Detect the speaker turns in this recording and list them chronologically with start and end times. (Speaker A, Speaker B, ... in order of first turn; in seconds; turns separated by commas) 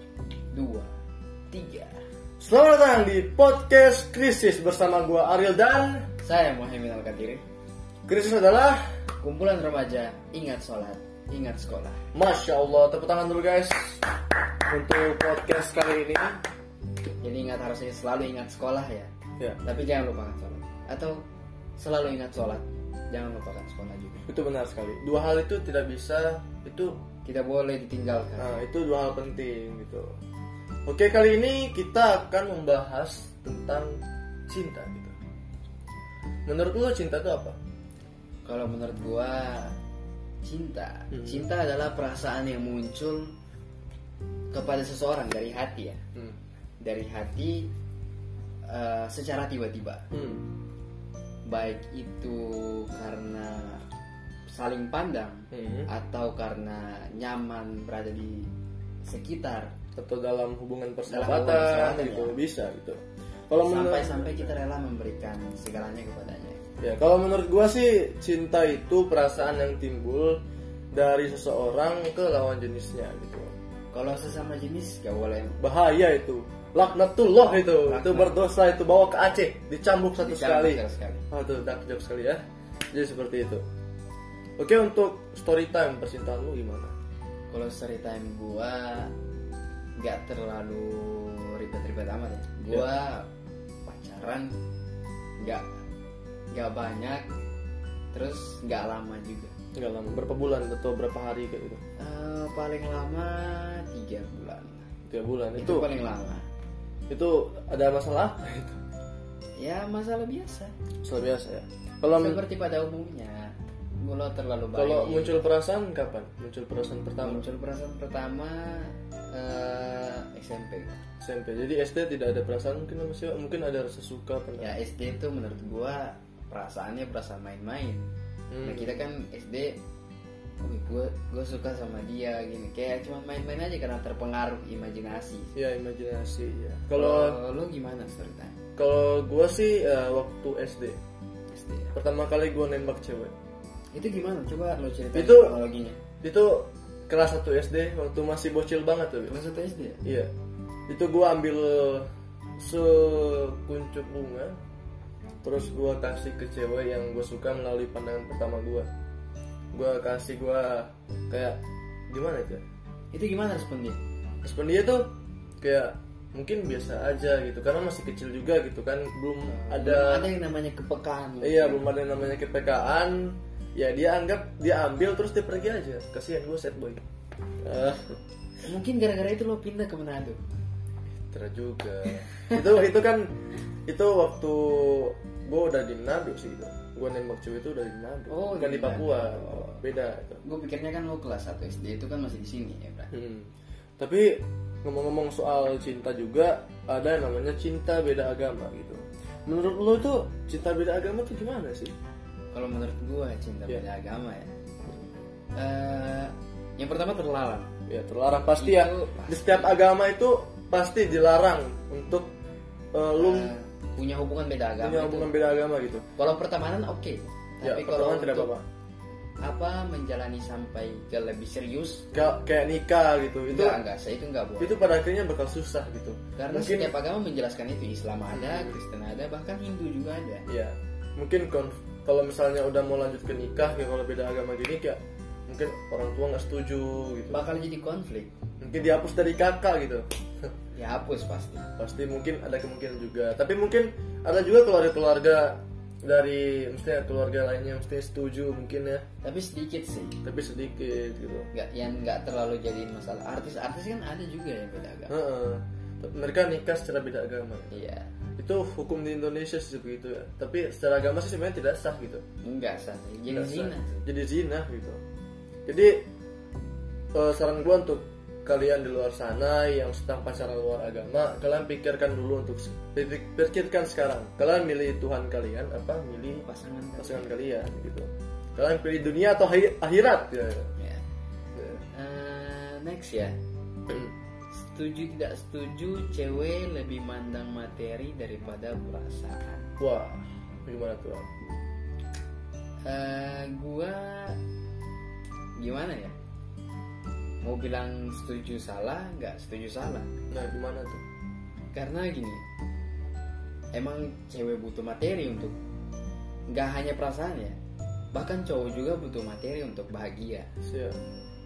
Speaker A: 0.5-0.9, Speaker A: 1.5-2.0, Speaker B: 2.4-6.1, Speaker A: 6.2-7.4, Speaker B: 8.1-8.8, Speaker A: 9.2-12.0, Speaker B: 12.1-14.1, Speaker B: 14.7-16.4, Speaker A: 17.2-19.1, Speaker A: 19.6-21.2, Speaker A: 21.8-24.3, Speaker B: 24.3-27.0, Speaker A: 27.2-28.6, Speaker B: 28.4-30.2, Speaker B: 30.9-35.1, Speaker B: 36.5-37.6, Speaker A: 38.5-39.8, Speaker A: 40.4-43.3, Speaker A: 44.5-46.0, Speaker A: 46.8-47.7, Speaker A: 48.7-50.1, Speaker B: 50.1-50.5, Speaker A: 51.5-53.8, Speaker A: 54.5-58.5, Speaker B: 55.5-55.9, Speaker A: 59.0-59.8, Speaker B: 60.0-64.5, Speaker A: 61.1-62.4, Speaker A: 63.6-66.6, Speaker B: 66.8-73.5, Speaker A: 73.9-75.6, Speaker B: 75.6-83.6, Speaker A: 77.4-78.3, Speaker A: 80.2-81.2, Speaker B: 84.6-86.9, Speaker A: 87.5-89.1, Speaker A: 90.0-93.3, Speaker A: 93.8-94.5, Speaker A: 96.5-97.3, Speaker A: 98.1-99.5, Speaker B: 99.8-101.8, Speaker A: 102.0-104.9, Speaker B: 105.1-105.9, Speaker A: 105.6-106.5, Speaker B: 107.1-108.8, Speaker A: 109.6-110.7, Speaker B: 111.0-112.4, Speaker A: 112.1-115.4, Speaker B: 114.8-117.5, Speaker A: 117.2-121.0, Speaker B: 121.2-124.8, Speaker A: 124.6-129.8, Speaker B: 128.5-128.9, Speaker A: 130.6-135.5, Speaker B: 135.6-137.4, Speaker A: 136.9-138.6, Speaker B: 138.8-141.0, Speaker A: 141.5-141.9, Speaker B: 141.9-143.3, Speaker A: 143.9-146.0, Speaker B: 145.1-145.6, Speaker B: 146.2-149.4, Speaker A: 149.3-150.0, Speaker B: 150.0-150.3, Speaker B: 150.9-152.1, Speaker B: 152.6-154.6, Speaker B: 155.4-158.9, Speaker B: 159.7-162.6, Speaker A: 163.1-164.0, Speaker B: 164.4-165.1, Speaker B: 165.6-170.3, Speaker A: 169.5-171.8, Speaker B: 171.4-177.0, Speaker B: 177.6-178.2, Speaker A: 178.6-180.4, Speaker B: 181.3-183.3, Speaker B: 183.9-190.4, Speaker A: 188.3-189.8, Speaker A: 190.4-193.1, Speaker B: 193.1-201.9, Speaker A: 202.5-204.5, Speaker A: 205.6-207.7, Speaker B: 207.9-212.3, Speaker A: 208.6-209.8, Speaker B: 212.9-213.5, Speaker A: 213.1-215.4, Speaker B: 214.8-216.1, Speaker A: 216.2-218.5, Speaker B: 217.6-218.7, Speaker A: 219.4-222.2, Speaker B: 222.1-223.8, Speaker A: 223.5-224.8, Speaker B: 224.6-226.9, Speaker A: 226.4-230.4, Speaker B: 228.3-228.8, Speaker B: 230.5-237.4, Speaker A: 237.3-238.3, Speaker B: 238.6-240.1, Speaker A: 240.8-241.7, Speaker B: 241.8-249.1, Speaker A: 249.2-250.2, Speaker B: 250.2-251.5, Speaker A: 251.5-255.1, Speaker B: 255.1-257.8, Speaker A: 257.7-258.1, Speaker B: 258.4-262.2, Speaker A: 262.4-264.1, Speaker B: 263.3-265.0, Speaker B: 265.7-266.1, Speaker B: 267.1-276.5, Speaker A: 276.4-277.4, Speaker B: 277.0-280.7, Speaker B: 281.6-281.8, Speaker A: 281.9-283.4, Speaker A: 284.5-289.7, Speaker B: 289.8-291.3, Speaker A: 292.9-294.4, Speaker A: 295.6-296.1, Speaker A: 297.4-300.1, Speaker B: 300.3-301.0, Speaker A: 301.7-302.4, Speaker A: 303.7-305.6, Speaker A: 306.5-307.6, Speaker A: 308.1-310.5, Speaker B: 310.6-311.0